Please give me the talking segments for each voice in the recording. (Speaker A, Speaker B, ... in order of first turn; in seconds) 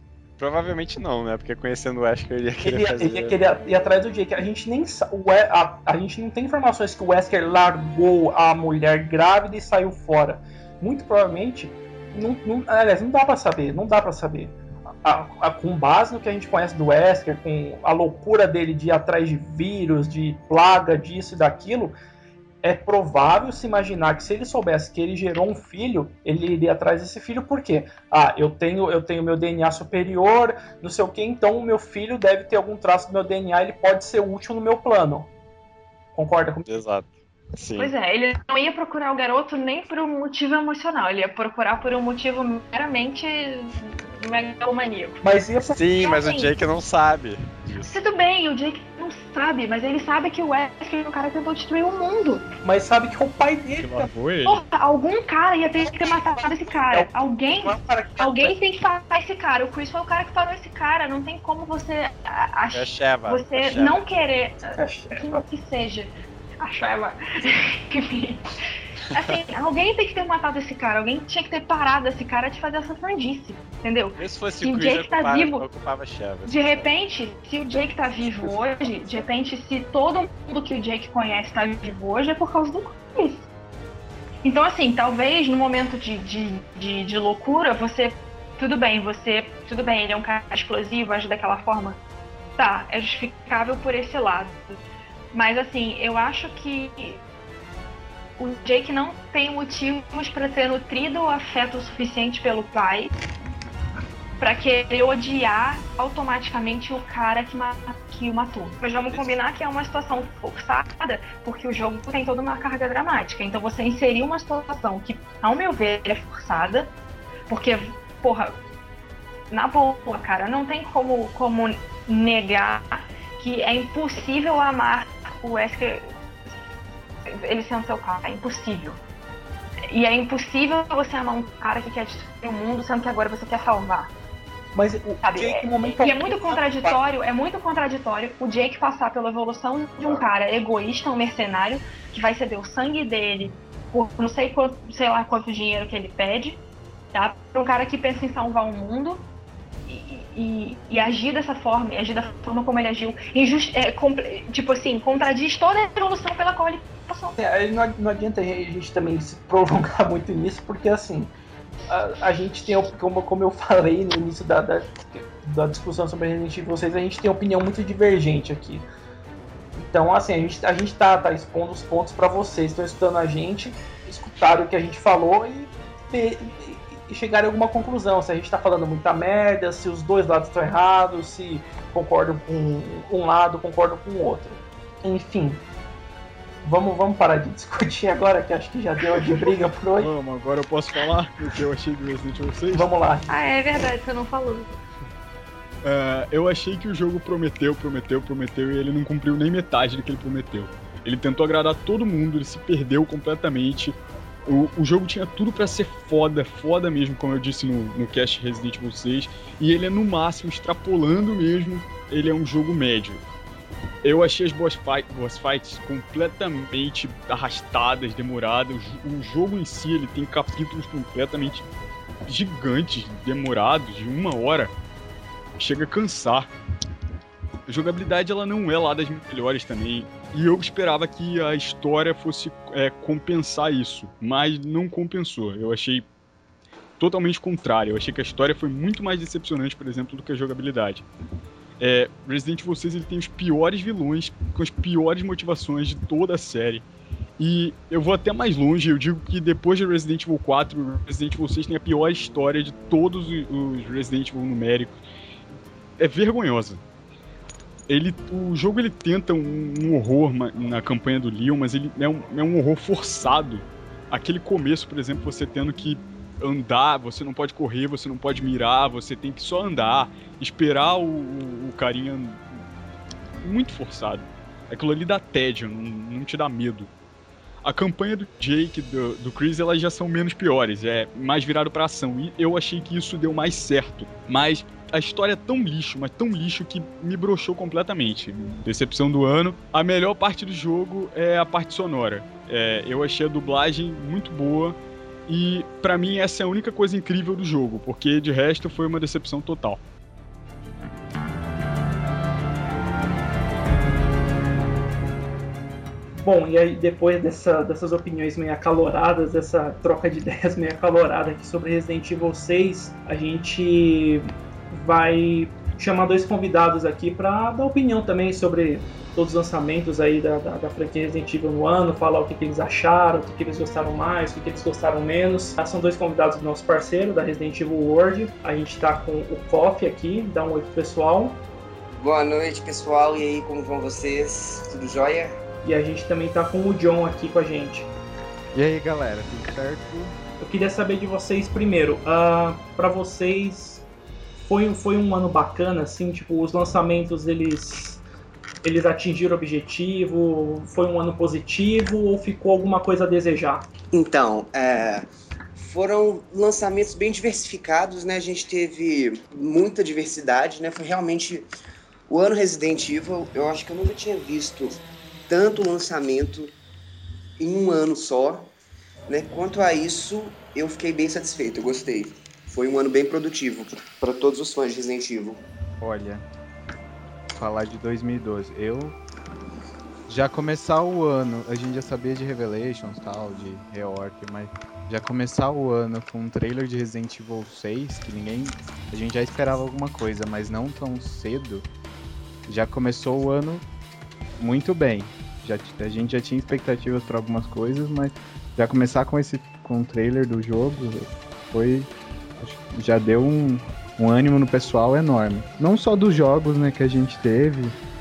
Speaker A: 0.4-3.4, 36.7-37.9, 45.6-48.0, 62.7-64.0, 74.2-76.9
Speaker B: 2.6-21.9, 22.6-35.3, 36.1-36.8, 45.2-45.8, 52.6-54.1, 56.9-58.5, 64.6-65.4, 134.8-137.0, 157.4-161.3, 161.9-168.9, 169.8-185.6, 186.6-190.1, 192.7-193.3, 306.2-331.4, 335.6-337.9, 340.4-343.9, 344.4-348.0, 348.6-353.7
Speaker C: 37.8-45.2, 46.0-46.5, 47.9-52.5, 54.5-68.6, 69.1-75.7, 76.5-83.5, 84.4-92.0, 92.6-94.8, 95.3-97.2, 98.4-103.1, 104.4-116.9, 117.5-118.6, 119.5-126.1, 127.3-129.0, 129.9-134.1, 135.2-146.6, 147.1-149.3, 149.9-157.4, 193.3-194.8
Speaker D: 53.8-54.6, 190.0-192.9, 195.8-213.2, 214.0-221.7, 222.3-224.7, 225.6-226.5, 227.7-236.1, 237.0-241.1, 241.8-246.8, 247.4-255.0, 256.0-256.8, 257.9-272.4, 273.4-276.9, 277.6-299.8
Speaker E: 332.0-335.4, 353.9-361.5, 362.1-366.5, 367.4-368.5, 369.1-375.4
Speaker F: 338.5-340.2, 375.8-376.2, 377.3-379.0, 380.1-391.6, 392.5-393.6, 394.4-407.8